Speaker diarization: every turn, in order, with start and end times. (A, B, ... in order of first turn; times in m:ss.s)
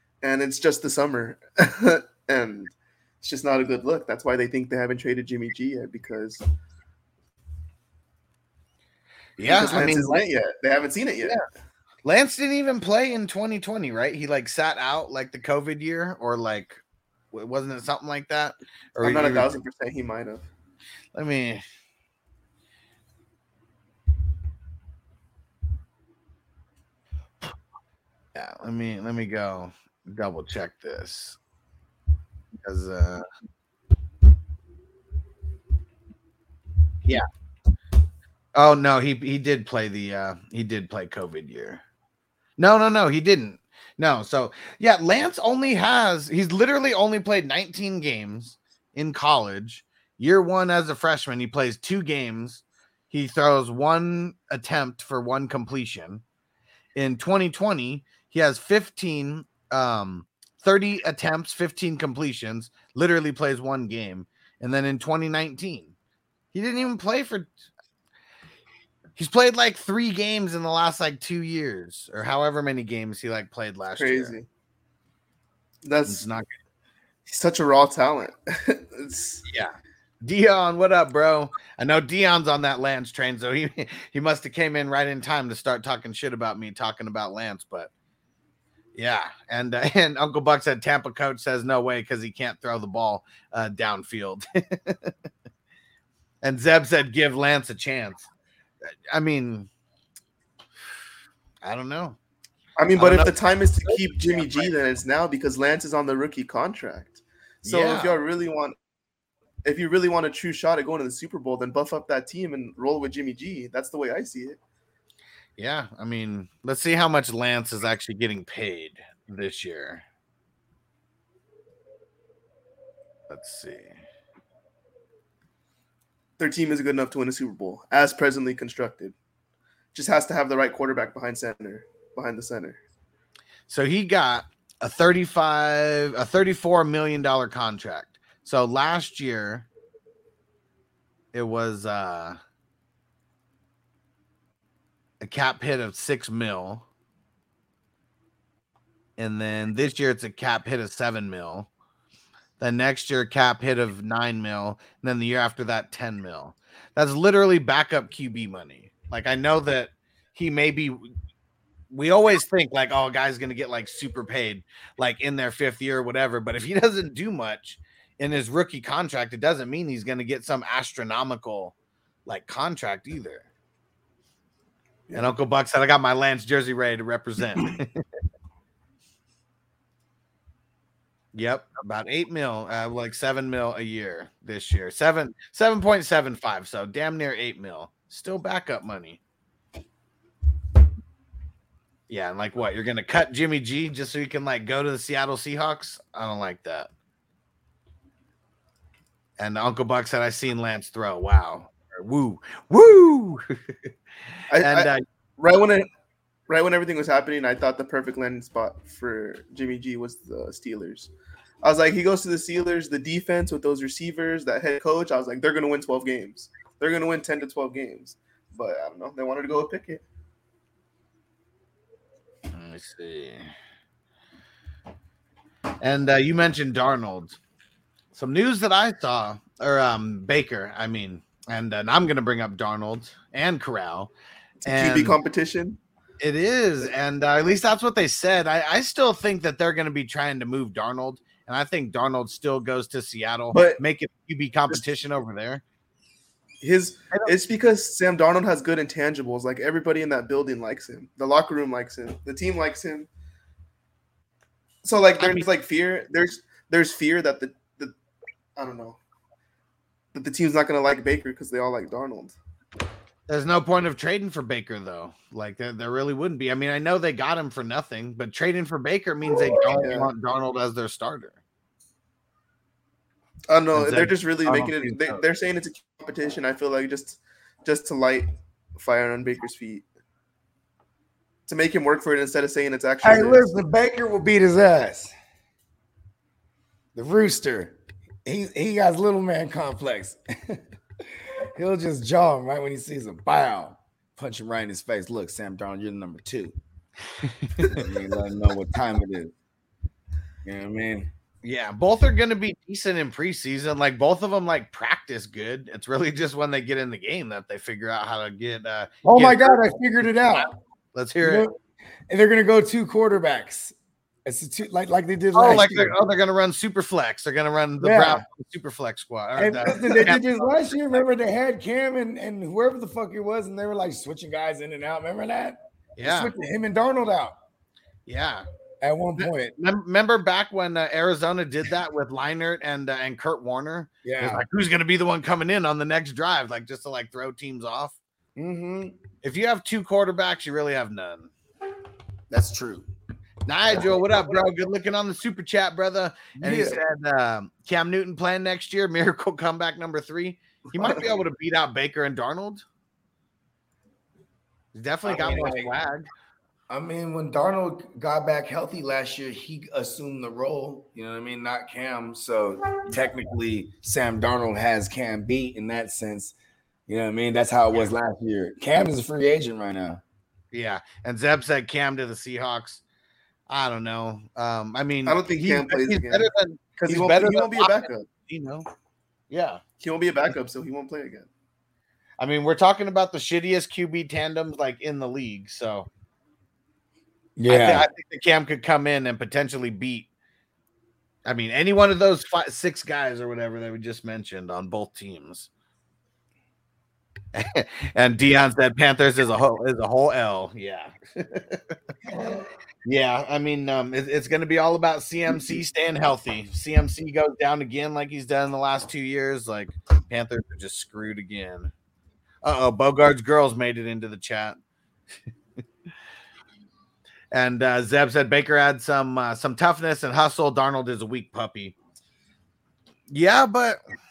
0:00.2-0:06.4 A
0:09.4-0:10.2 B
0:09.4-0:11.4 A
0:12.0-0:16.8 B
0:17.3-0:19.5 B
0:19.0-0:20.5 A
0:21.1-0:21.6 B
0:28.3-0:31.4 B
0:32.6-0:33.2 B
0:38.5-0:41.8 B
0:42.6-0:56.2 B
0:57.0-1:05.9 B
1:06.5-1:07.5 B
1:09.2-1:14.4 B
1:13.9-1:14.5 A
1:15.8-1:16.2 A
1:16.1-1:16.5 B
1:17.3-1:19.4 A
1:19.5-1:27.9 B
1:29.0-1:35.1 B
1:36.4-1:38.3 B
1:39.1-1:39.7 B
1:41.6-1:42.2 B
1:42.8-1:48.8 A
1:42.9-1:43.4 B
1:43.9-1:44.4 B
1:47.6-1:48.2 B
1:49.6-1:54.6 A
1:55.6-2:00.0 B
2:03.3-2:03.9 B
2:06.4-2:09.1 A
2:09.9-2:12.8 A
2:13.7-2:19.6 B
2:21.3-2:22.4 B
2:25.2-2:26.8 B
2:29.2-2:31.7 B
2:32.6-2:41.1 B
2:41.9-2:51.7 B
2:52.2-2:53.5 B
2:55.1-2:58.0 B
3:01.3-3:09.2 B
3:12.1-3:16.9 B
3:19.4-3:23.5 B
3:24.5-3:25.9 A
3:24.6-3:25.0 B
3:26.5-3:31.1 A
3:31.6-3:40.0 A
3:42.5-3:43.5 B
3:45.8-3:47.4 B
3:48.1-3:54.1 B
3:54.6-3:55.8 A
3:54.6-3:55.2 B
3:56.2-4:05.6 B
4:03.5-4:03.8 A
4:06.6-4:13.1 A
4:14.8-4:17.9 A
4:15.2-4:15.5 B
4:18.6-4:19.0 A
4:20.1-4:22.4 A
4:23.3-4:31.4 B
4:29.7-4:30.1 A
4:33.5-4:39.9 A
4:33.7-4:35.2 B
4:41.5-4:43.5 A
4:43.0-4:45.1 C
4:46.9-4:50.6 C
4:51.5-4:56.6 C
4:57.4-4:57.7 B
4:57.7-4:59.3 C
5:00.4-5:01.1 C
5:01.4-5:09.6 B
5:09.0-5:10.5 C
5:10.3-5:11.5 B
5:11.2-5:11.6 C
5:12.1-5:16.0 C
5:15.3-5:20.2 B
5:17.8-5:18.2 C
5:19.4-5:27.3 C
5:26.0-5:26.3 B
5:28.0-5:28.4 B
5:28.8-5:29.5 C
5:29.2-5:38.0 B
5:34.0-5:34.4 C
5:38.4-5:39.0 C
5:39.2-5:41.3 B
5:42.3-5:42.9 C
5:43.4-5:52.6 B
5:46.4-5:46.8 C
5:54.7-5:56.1 B
5:55.0-5:55.7 C
5:56.7-6:06.3 C
6:06.9-6:10.0 C
6:10.5-6:12.8 B
6:13.5-6:18.7 B
6:15.0-6:18.0 A
6:19.3-6:19.6 B
6:19.8-6:21.3 A
6:22.2-6:25.9 B
6:27.4-6:27.9 C
6:27.5-6:30.1 B
6:31.2-6:35.5 B
6:37.3-6:41.7 B
6:42.1-6:42.4 C
6:42.8-6:51.7 B
6:52.4-6:54.6 B
6:57.3-7:01.7 B
7:03.1-7:03.8 B